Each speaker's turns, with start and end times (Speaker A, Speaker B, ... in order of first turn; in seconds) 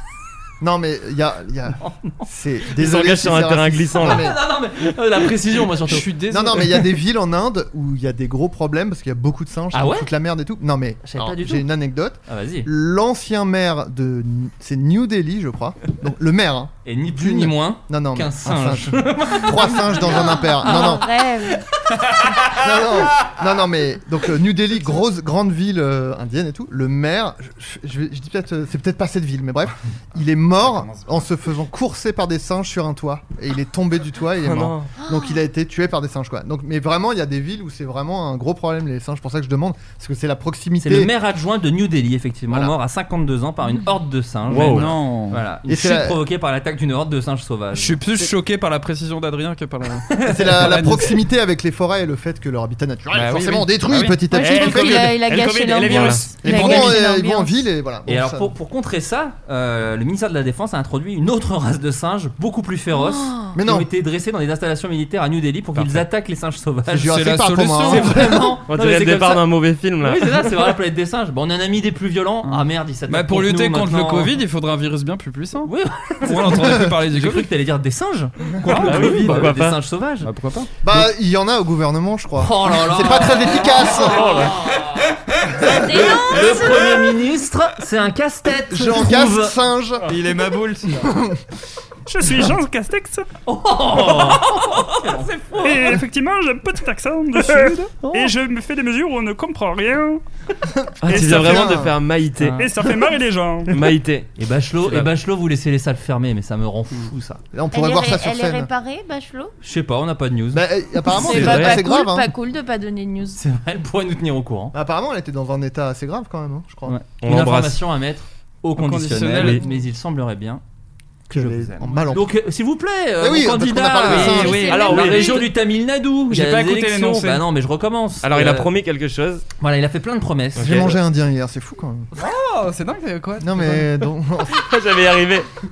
Speaker A: 0.6-4.4, 6.3-21.1, 22.5-41.1, 42.5-42.8, 45.7-46.2, 50.3-55.1, 56.4-58.5, 63.5-63.9, 66.9-68.6, 80.8-84.3, 88.7-90.1, 90.9-91.4, 100.7-102.0, 107.5-108.7, 110.5-112.3, 114.7-117.0, 121.3-122.4, 123.2-124.7, 130.6-132.1, 133.4-134.6
Speaker B: 1.8-2.2, 3.9-6.1, 9.7-10.1, 11.0-11.7, 12.3-12.7, 16.9-22.5, 40.8-48.0, 50.1-50.5, 58.1-67.3, 67.8-74.3, 75.7-80.3, 82.3-89.6, 93.5-96.0, 98.0-98.3, 102.4-102.7, 104.4-107.4, 109.6-110.7, 113.4-114.7, 116.9-120.6, 121.3-128.7, 129.6-131.0
Speaker C: 2.7-4.3, 34.4-34.9, 44.5-45.0, 54.5-56.4, 68.7-70.6, 78.8-79.8, 84.0-84.6, 101.0-102.6, 103.7-105.1, 111.2-111.8, 117.2-117.8, 119.3-119.6, 124.7-125.5, 128.2-129.4, 130.6-130.9, 134.5-135.5
Speaker D: 5.9-6.9, 30.6-31.2, 44.5-45.4, 47.8-51.2, 53.1-55.2, 55.7-56.7, 65.8-66.0, 67.0-68.3, 72.5-75.7, 76.3-77.5, 78.6-79.5, 80.2-80.7, 90.1-91.0, 97.3-98.1, 118.8-119.6, 124.1-125.1, 126.3-127.5, 132.2-134.1
Speaker E: 20.1-21.6, 35.0-35.4, 54.0-57.6, 62.9-63.5, 85.7-86.8, 107.7-109.5, 111.1-113.4, 124.1-125.4
Speaker F: 92.1-93.3, 94.3-94.7, 95.6-100.2, 101.1-101.8, 102.5-103.9